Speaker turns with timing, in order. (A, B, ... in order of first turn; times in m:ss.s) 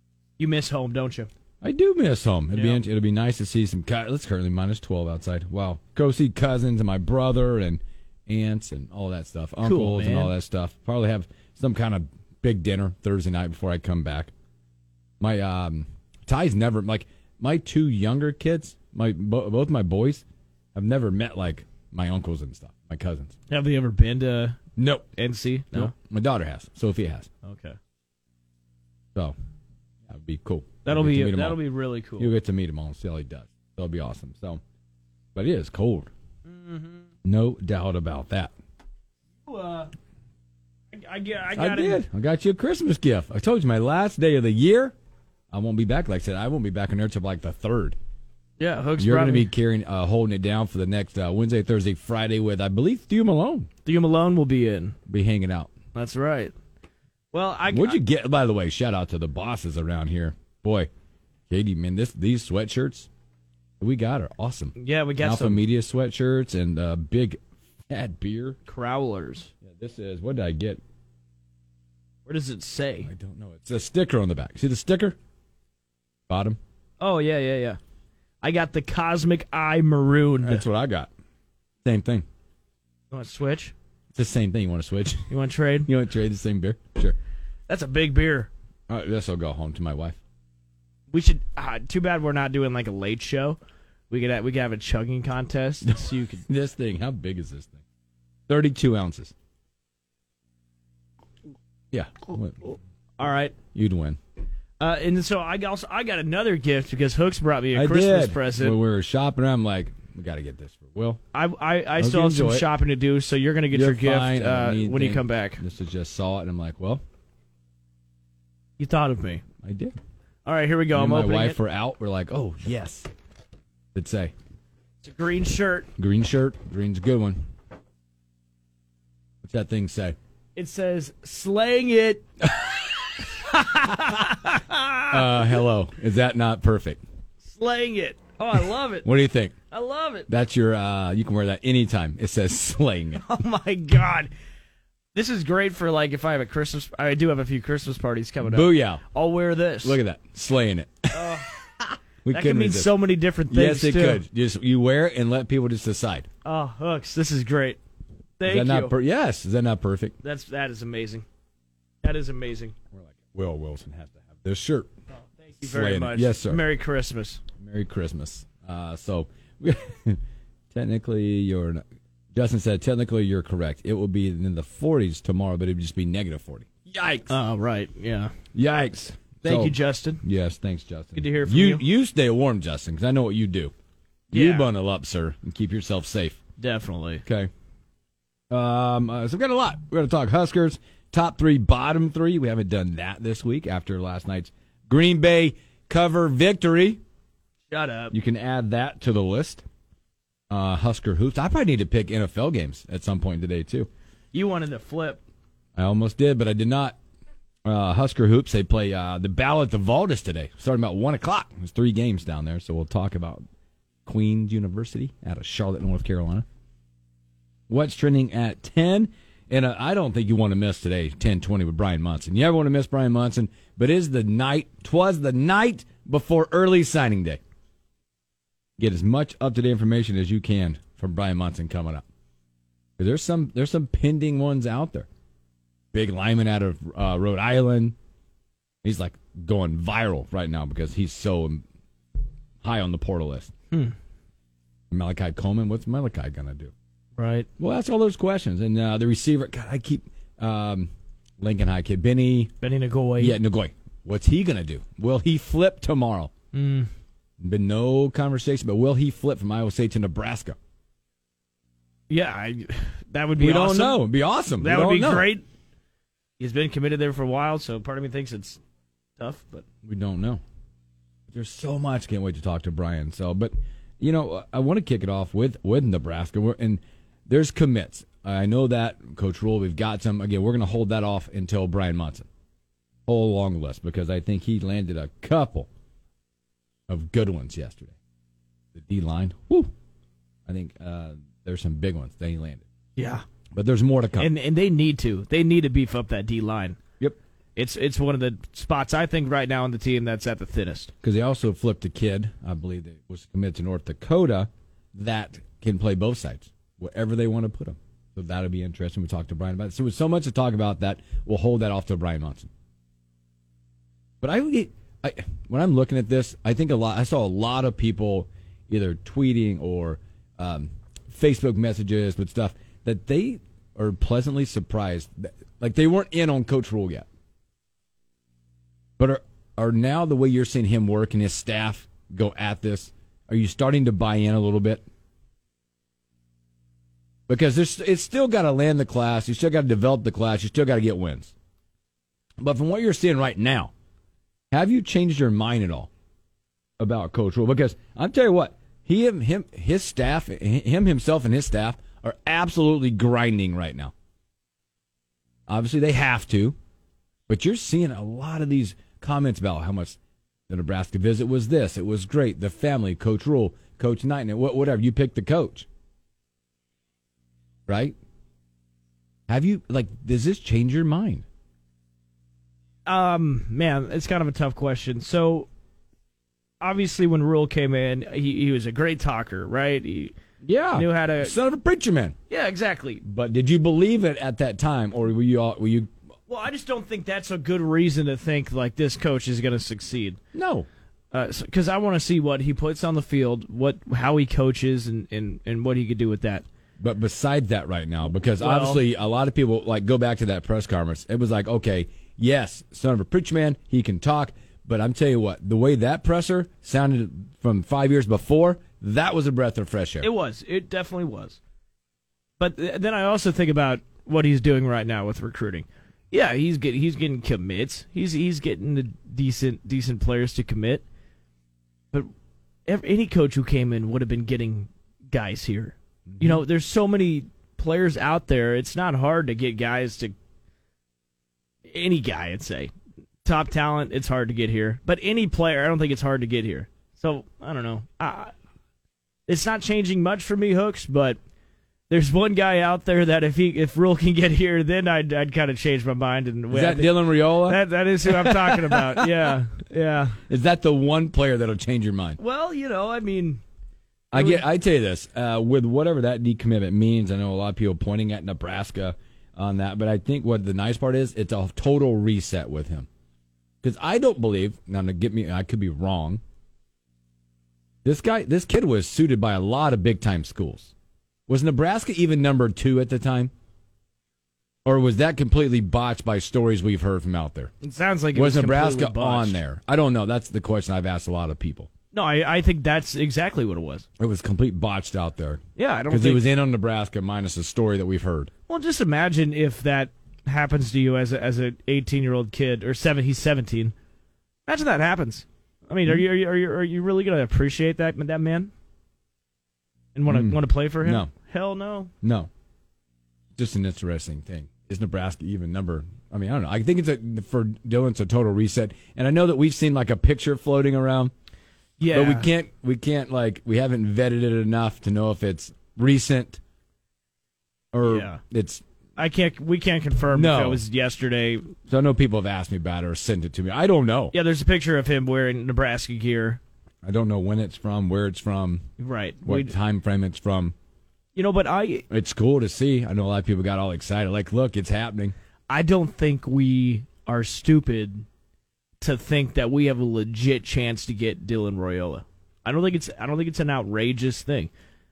0:00.4-0:01.3 A
0:01.6-0:14.3 B
0:02.5-0:02.8 A
0:09.6-0:10.3 A
0:15.2-0:20.2 B
0:20.7-0:23.4 B
0:23.5-0:24.6 A
0:24.8-0:25.1 B
0:25.2-0:25.9 A
0:25.7-0:27.3 B
0:27.4-0:27.8 A
0:30.1-0:31.6 B
0:30.8-0:32.3 A
0:32.2-0:34.6 B
0:35.3-0:36.1 B
0:36.4-0:37.1 A
0:37.2-0:38.5 B
0:39.4-0:39.9 A
0:40.9-0:42.0 A
0:41.5-0:44.9 B
0:45.5-0:48.0 B
0:48.6-0:49.5 A
0:49.0-0:53.7 B
0:53.8-0:55.0 A
0:55.1-0:55.7 B
0:55.9-0:56.5 A
0:57.3-0:58.0 A
0:57.7-1:00.9 B
1:01.5-1:03.1 B
1:03.8-1:08.6 B
1:04.8-1:05.6 A
1:08.6-1:09.5 A
1:09.6-1:10.8 B
1:12.2-1:13.1 A
1:13.0-1:15.2 B
1:16.3-1:16.6 B
1:17.0-1:17.8 A
1:18.4-1:20.6 A
1:20.4-1:21.1 B
1:21.8-1:22.2 B
1:23.1-1:23.7 A
1:24.1-1:25.3 B
1:25.3-1:25.9 A
1:25.8-1:27.2 B
1:27.7-1:28.5 A
1:28.9-1:30.2 B
1:31.1-1:36.4 A
1:35.9-1:37.8 B
1:38.5-1:39.3 B
1:41.9-1:42.8 B
1:43.2-1:43.6 A
1:43.7-1:44.2 B
1:44.8-1:48.8 A
1:47.7-1:51.2 B
1:51.3-1:55.6 A
1:52.0-1:52.7 B
1:53.7-1:57.0 B
1:58.8-1:59.4 A
1:59.6-1:59.9 B
2:00.4-2:01.6 A
2:00.9-2:03.1 B
2:03.9-2:04.3 B
2:05.0-2:05.9 A
2:06.0-2:07.4 B
2:09.4-2:10.2 B
2:10.6-2:12.2 A
2:12.8-2:15.6 A
2:15.1-2:17.0 B
2:17.4-2:19.1 A
2:19.0-2:19.5 B
2:19.7-2:20.3 A
2:20.3-2:23.2 B
2:23.2-2:24.3 A
2:25.1-2:30.0 A
2:28.4-2:29.0 B
2:29.8-2:31.6 B
2:31.1-2:31.6 A
2:32.2-2:36.3 B
2:32.3-2:34.2 A
2:36.4-2:37.8 A
2:38.4-2:38.9 A
2:38.4-2:40.2 B
2:40.2-2:41.2 A
2:42.0-2:42.7 A
2:42.9-2:44.9 B
2:45.4-2:47.4 A
2:45.6-2:46.6 B
2:47.6-2:50.2 B
2:50.7-2:51.8 B
2:52.3-2:57.3 B
2:57.3-2:58.3 A
2:58.5-3:03.7 B
2:59.4-3:00.2 A
3:01.2-3:01.8 A
3:04.3-3:04.7 A
3:04.3-3:06.4 B
3:06.6-3:07.2 A
3:07.2-3:07.5 B
3:08.5-3:17.0 B
3:17.7-3:18.1 A
3:18.1-3:19.6 B
3:20.5-3:23.9 B
3:24.3-3:25.2 A
3:25.8-3:27.0 B
3:27.6-3:33.4 B
3:34.0-3:36.4 B
3:37.7-3:47.4 B
3:48.8-3:52.0 B
3:53.0-3:55.1 B
3:55.9-3:58.0 B
3:58.8-4:01.6 B
4:02.6-4:03.5 B
4:04.9-4:06.7 B
4:07.2-4:07.5 A
4:07.6-4:12.5 B
4:12.6-4:13.4 A
4:13.2-4:16.3 B
4:16.5-4:16.9 A
4:17.4-4:20.6 B
4:22.1-4:25.4 A
4:23.4-4:25.3 B
4:26.4-4:28.6 A
4:29.2-4:29.6 A
4:29.8-4:30.4 B
4:31.3-4:42.3 B
4:43.1-4:45.7 B
4:46.9-4:48.0 B
4:48.7-4:49.7 B
4:50.5-4:52.7 B
4:53.0-4:53.2 A
4:53.5-4:54.3 B
4:54.2-4:56.8 A
4:57.6-5:00.9 A
5:01.0-5:12.5 B
5:14.2-5:27.1 B
5:29.0-5:34.8 B
5:37.3-5:41.3 B
5:42.4-5:43.7 B
5:44.5-5:45.9 B
5:46.8-5:53.9 B
5:55.5-5:56.6 B
5:57.3-6:00.0 B
6:00.5-6:05.7 B
6:07.7-6:08.0 B
6:09.3-6:11.2 B
6:12.8-6:15.5 A
6:16.6-6:20.1 A
6:20.4-6:22.2 B
6:20.7-6:21.4 A
6:22.3-6:23.0 A
6:23.0-6:25.9 B
6:26.3-6:30.2 A
6:30.3-6:30.7 B
6:31.1-6:36.4 A
6:36.8-6:50.1 B
6:38.3-6:38.8 A
6:50.0-6:51.4 A
6:52.4-7:00.8 A
7:02.7-7:10.1 A
7:06.1-7:06.4 B
7:11.7-7:12.7 A
7:13.2-7:18.3 A
7:19.3-7:21.2 A
7:21.9-7:30.2 A
7:26.5-7:29.4 B
7:30.3-7:32.2 B
7:32.2-7:33.4 A
7:34.1-7:42.9 B
7:34.1-7:34.4 A
7:43.6-7:46.2 B
7:47.8-7:50.7 B
7:51.3-7:53.3 B
7:54.6-7:57.5 B
7:57.6-7:59.4 A
7:58.1-8:01.7 B
8:01.9-8:03.8 A
8:04.0-8:08.3 B
8:05.6-8:06.2 A
8:08.5-8:13.7 A
8:14.4-8:18.5 A
8:19.9-8:21.9 A
8:20.1-8:21.1 B
8:22.0-8:22.3 B
8:23.4-8:31.1 B
8:31.8-8:32.3 A
8:31.9-8:36.4 B
8:37.7-8:38.6 B
8:37.8-8:38.2 A
8:39.0-8:41.5 A
8:40.1-8:40.6 B
8:41.7-8:44.1 B
8:44.1-8:46.4 A
8:46.8-8:48.7 B
8:48.8-8:49.5 A
8:49.2-8:50.5 B
8:51.1-8:51.8 A
8:51.9-8:55.1 B
8:55.5-8:58.0 A
8:58.8-9:04.5 A